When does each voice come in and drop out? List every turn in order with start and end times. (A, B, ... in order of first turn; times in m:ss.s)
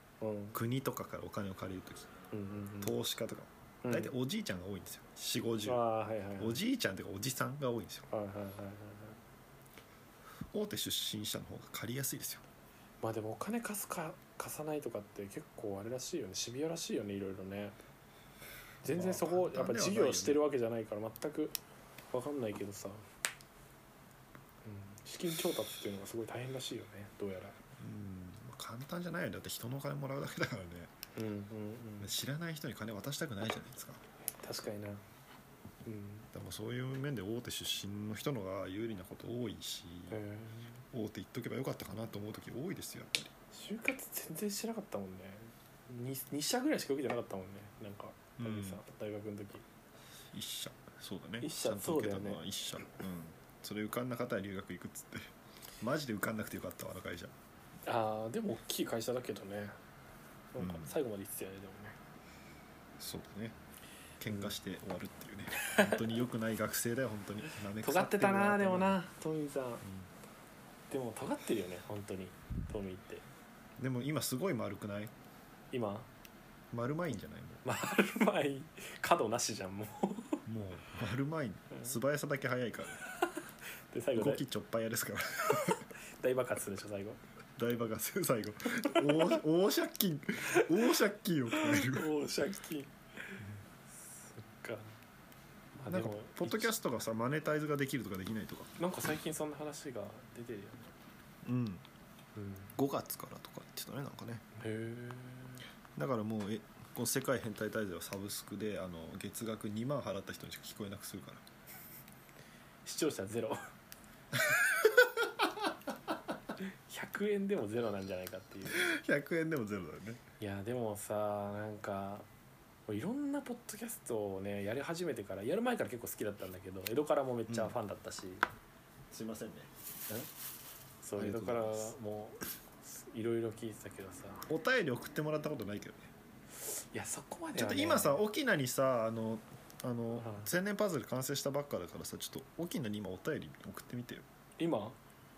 0:00.2-0:00.6 A
0:00.5-0:02.1 B
0:02.3-0:02.9 A
0:02.8-0:05.8 B
0:03.8-0:04.1 A
0:05.6-0:06.6 A
0:06.4-0:08.1 B
0:08.1-0:09.2 A
0:10.5-0:12.4 B
0:13.0-0:17.8 A
0:18.8-0:21.6 A
0:18.9-0:20.4 B
0:22.1-0:23.0 A
0:24.6-0:27.6 A
0:27.8-0:30.9 B
0:31.2-0:32.1 A
0:32.0-0:34.0 B
0:34.4-0:35.0 A
0:35.8-0:36.3 A
0:36.3-0:40.2 B
0:40.1-0:40.8 A
0:40.9-0:43.3 B
0:43.5-0:49.7 A
0:48.4-0:48.8 B
0:50.3-0:57.3 B
0:51.4-0:52.4 A
0:57.9-0:59.8 A
1:00.5-1:02.0 A
1:00.6-1:00.9 B
1:03.0-1:03.6 B
1:04.2-1:09.0 B
1:05.6-1:06.2 A
1:07.6-1:09.8 A
1:09.8-1:10.1 B
1:10.9-1:13.3 A
1:13.8-1:15.1 B
1:15.7-1:16.1 A
1:16.7-1:17.6 B
1:17.6-1:20.4 A
1:20.5-1:23.0 B
1:23.9-1:24.4 A
1:24.2-1:25.9 B
1:25.6-1:27.2 A
1:27.6-1:32.1 B
1:28.8-1:29.4 A
1:30.5-1:30.9 A
1:31.5-1:35.0 A
1:35.8-1:36.7 A
1:35.8-1:38.7 B
1:38.8-1:40.9 A
1:41.4-1:41.8 B
1:42.4-1:42.7 A
1:42.8-1:44.4 B
1:44.6-1:45.6 A
1:46.0-1:51.4 B
1:52.8-1:53.6 A
1:56.9-1:58.9 A
1:58.7-2:00.2 B
2:00.4-2:02.3 A
2:02.9-2:08.5 A
2:07.5-2:07.8 B
2:09.1-2:09.7 B
2:11.0-2:14.5 A
2:11.2-2:11.9 B
2:14.5-2:16.1 B
2:16.6-2:18.2 A
2:17.6-2:24.2 B
2:20.2-2:20.5 A
2:24.6-2:25.0 A